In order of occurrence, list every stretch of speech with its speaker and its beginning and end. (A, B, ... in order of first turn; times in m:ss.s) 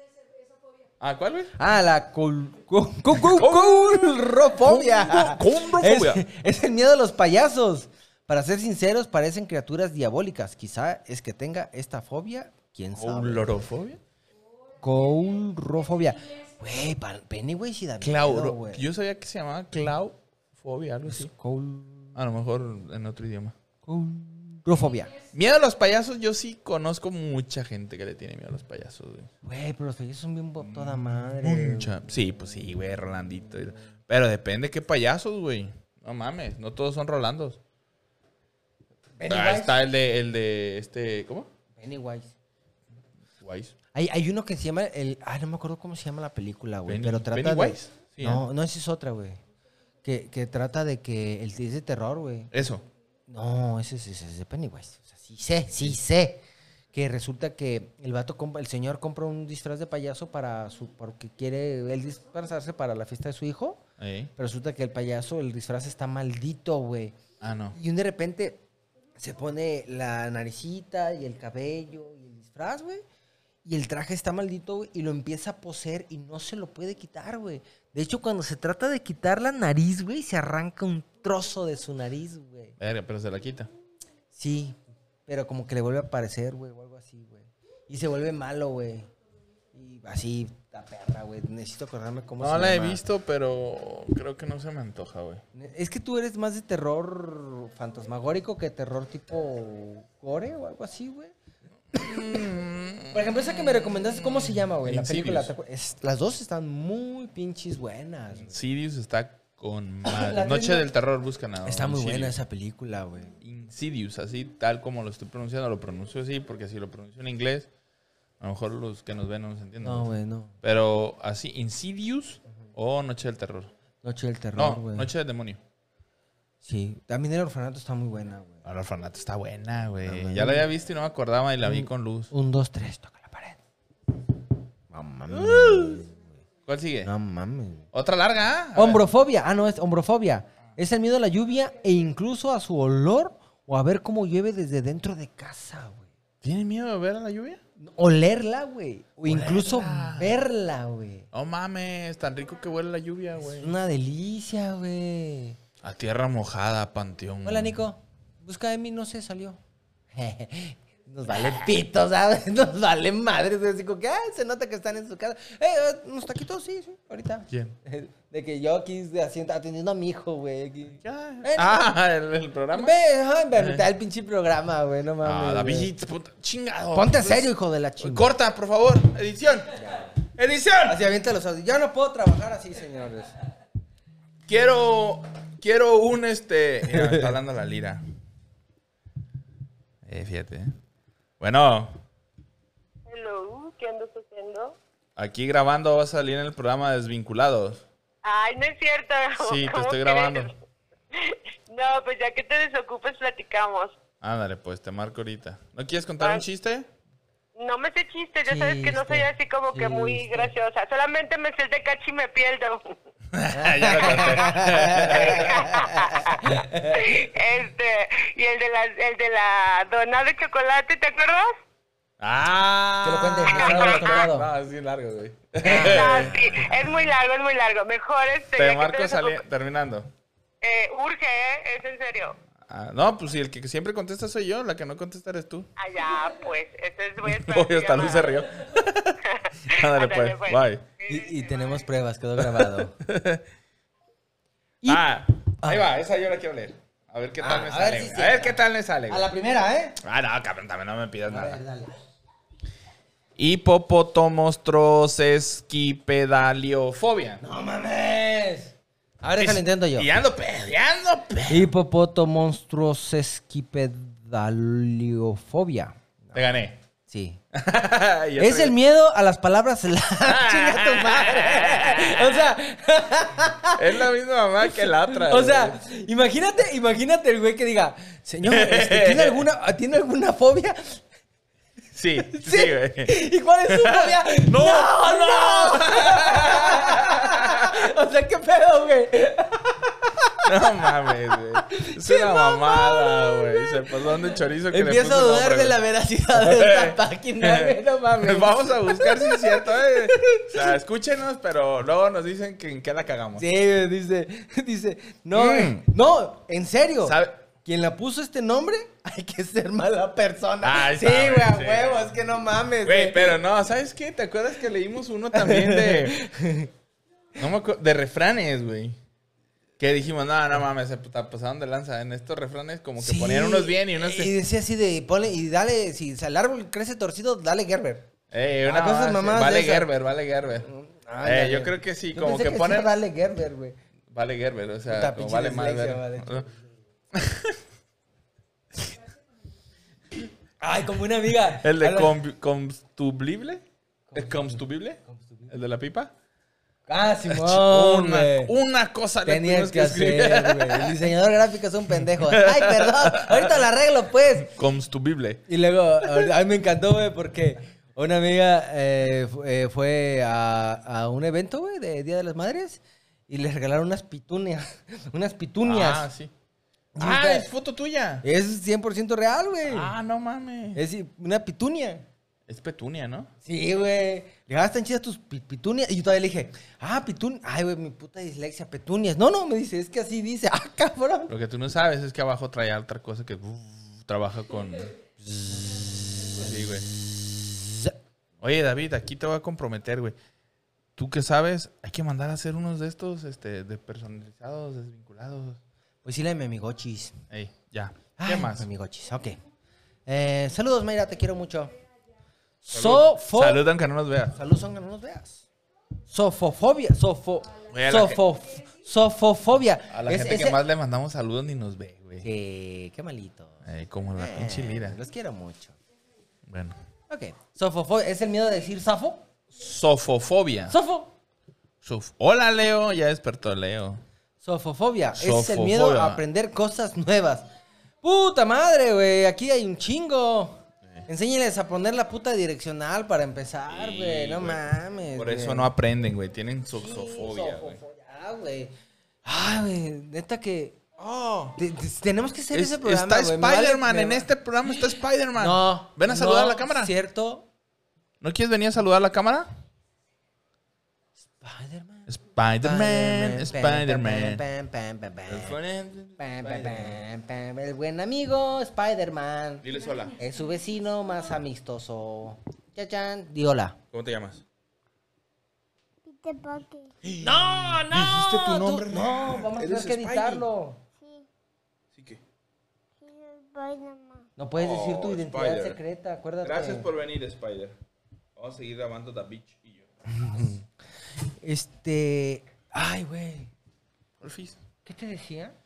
0:01.0-0:01.5 A
0:01.6-0:13.6 B
0:03.1-0:06.2 A
0:12.9-0:14.0 A
0:14.8-0:18.8 B
0:18.0-0:21.3 A
0:21.1-0:22.1 B
0:22.1-0:23.6 A
0:23.8-0:25.1 B
0:25.3-0:29.3 A
0:29.4-0:32.0 B
0:30.6-0:37.6 A
0:39.2-0:39.8 B
0:39.3-0:41.5 A
0:41.8-0:42.3 B
0:43.4-0:43.7 A
0:43.9-0:49.4 B
0:46.8-0:48.4 A
0:50.0-0:52.5 B
0:52.5-0:52.8 A
0:53.3-0:56.4 B
0:56.9-1:03.8 B
1:04.0-1:04.3 A
1:04.4-1:07.2 B
1:07.4-1:07.8 A
1:07.7-1:08.6 B
1:09.2-1:13.0 B
1:13.6-1:22.8 B
1:22.8-1:23.7 A
1:24.3-1:29.1 B
1:29.7-1:33.0 B
1:32.4-1:35.4 A
1:35.5-1:41.3 B
1:41.9-1:45.5 A
1:41.9-1:42.4 B
1:43.1-1:48.6 B
1:48.4-1:52.4 A
1:50.0-1:50.9 B
1:51.6-1:53.4 B
1:53.4-1:57.7 A
1:58.4-2:00.1 A
1:59.8-2:00.6 B
2:00.6-2:03.7 A
2:04.0-2:05.1 B
2:04.6-2:05.6 A
2:06.6-2:08.6 B
2:08.6-2:12.3 A
2:10.0-2:10.7 B
2:11.6-2:13.6 B
2:14.9-2:16.4 B
2:15.3-2:16.0 A
2:16.6-2:17.1 A
2:17.0-2:17.8 B
2:17.9-2:19.0 A
2:18.7-2:26.1 B
2:26.4-2:27.6 A
2:27.8-2:31.3 B
2:29.2-2:30.4 A
2:31.3-2:33.7 A
2:33.4-2:35.6 B
2:35.8-2:37.8 A
2:37.4-2:39.6 B
2:40.1-2:51.9 B
2:47.5-2:47.8 A
2:51.0-2:53.0 A
2:52.7-2:55.9 B
2:53.5-2:53.8 A
2:55.2-3:01.0 A
2:56.9-2:58.3 B
2:59.7-3:00.2 B
3:00.8-3:03.3 B
3:04.5-3:08.0 A
3:06.9-3:07.3 B
3:10.0-3:10.7 A
3:11.4-3:12.0 A
3:13.1-3:14.8 C
3:15.2-3:17.8 A
3:18.2-3:20.6 C
3:19.4-3:20.5 A
3:21.1-3:24.0 C
3:24.2-3:26.9 A
3:27.6-3:32.9 C
3:28.4-3:30.5 B
3:33.3-3:35.7 A
3:33.5-3:37.2 B
3:35.4-3:41.6 C
3:42.2-3:46.8 A
3:43.0-3:44.5 B
3:43.6-3:44.2 C
3:45.6-3:46.5 B
3:45.6-3:49.4 C
3:48.5-3:50.1 A
3:50.6-3:52.4 C
3:52.7-3:55.7 A
3:55.8-3:58.5 C
3:57.2-4:00.8 A
3:59.2-4:01.7 C
4:01.1-4:03.0 B
4:02.4-4:03.4 A
4:04.8-4:09.3 A
4:05.6-4:05.9 B
4:07.4-4:10.0 B
4:10.0-4:11.6 A
4:11.3-4:12.0 B
4:13.4-4:17.4 A
4:17.4-4:20.1 B
4:19.4-4:21.7 A
4:21.5-4:26.4 B
4:26.3-4:26.8 A
4:27.1-4:27.4 B
4:27.5-4:28.8 A
4:28.4-4:34.0 B
4:30.2-4:32.5 A
4:33.8-4:35.8 A
4:34.6-4:41.0 B
4:38.4-4:39.4 A
4:41.9-4:43.1 A
4:42.3-4:50.5 B
4:43.7-4:47.8 A
4:50.4-4:55.8 A
4:51.7-4:54.1 B
4:54.7-5:00.7 B
4:56.3-5:03.4 A
5:03.4-5:13.4 B
5:05.3-5:05.9 A
5:07.0-5:07.4 A
5:10.6-5:12.1 A
5:12.8-5:16.2 A
5:15.3-5:16.7 B
5:17.4-5:19.0 A
5:19.8-5:24.4 A
5:23.0-5:28.1 B
5:28.3-5:30.7 A
5:28.6-5:29.9 B
5:30.6-5:33.8 B
5:31.2-5:32.9 A
5:34.1-5:36.4 A
5:34.9-5:36.6 B
5:37.1-5:37.6 A
5:40.6-5:42.2 B
5:41.5-5:46.1 A
5:44.1-5:45.5 B
5:46.9-5:48.5 B
5:47.3-5:51.0 A
5:49.2-5:54.5 B
5:52.1-5:53.6 A
5:54.4-5:55.4 A
5:55.5-6:06.1 B
5:56.0-5:56.3 A
6:05.6-6:06.3 A
6:06.9-6:07.5 B
6:07.0-6:08.2 A
6:08.2-6:09.9 B
6:09.7-6:10.8 A
6:10.7-6:12.0 B
6:12.5-6:13.3 A
6:13.4-6:21.3 B
6:21.3-6:24.9 A
6:25.2-6:27.9 B
6:26.3-6:26.9 A
6:28.4-6:30.2 A
6:31.0-6:35.6 A
6:36.0-6:37.2 B
6:37.3-6:38.7 A
6:38.2-6:39.4 B
6:40.0-6:41.7 B
6:42.6-6:43.6 B
6:42.7-6:44.4 A
6:44.3-6:45.5 B
6:46.1-6:50.6 B
6:47.7-6:48.2 A
6:49.9-6:52.2 A
6:52.2-6:55.8 B
6:53.6-6:55.0 A
6:56.4-6:56.8 A
6:57.1-6:59.2 B
6:59.5-7:00.8 A
7:00.7-7:01.1 B
7:01.8-7:04.0 A
7:04.4-7:07.5 B
7:05.1-7:06.2 A
7:08.0-7:15.7 B
7:13.7-7:14.6 A
7:15.1-7:17.8 A
7:16.7-7:18.7 B
7:19.2-7:24.3 B
7:22.5-7:26.9 A
7:25.3-7:27.5 B
7:28.2-7:29.5 A
7:31.4-7:32.1 B
7:32.1-7:34.4 A
7:32.6-7:35.6 B
7:35.2-7:37.0 A
7:36.2-7:39.6 B
7:39.6-7:40.2 A
7:40.2-7:43.8 B
7:43.9-7:44.4 A
7:46.0-7:46.9 D
7:47.0-7:50.5 A
7:47.2-7:50.8 B
7:51.0-7:51.2 D
7:51.9-7:52.2 A
7:53.0-7:54.3 D
7:54.4-7:56.9 B
7:54.6-7:55.8 A
7:56.4-7:57.8 A
7:58.4-7:59.9 A
8:00.1-8:00.7 B
8:01.2-8:03.5 B
8:04.2-8:04.6 A
8:04.8-8:05.6 B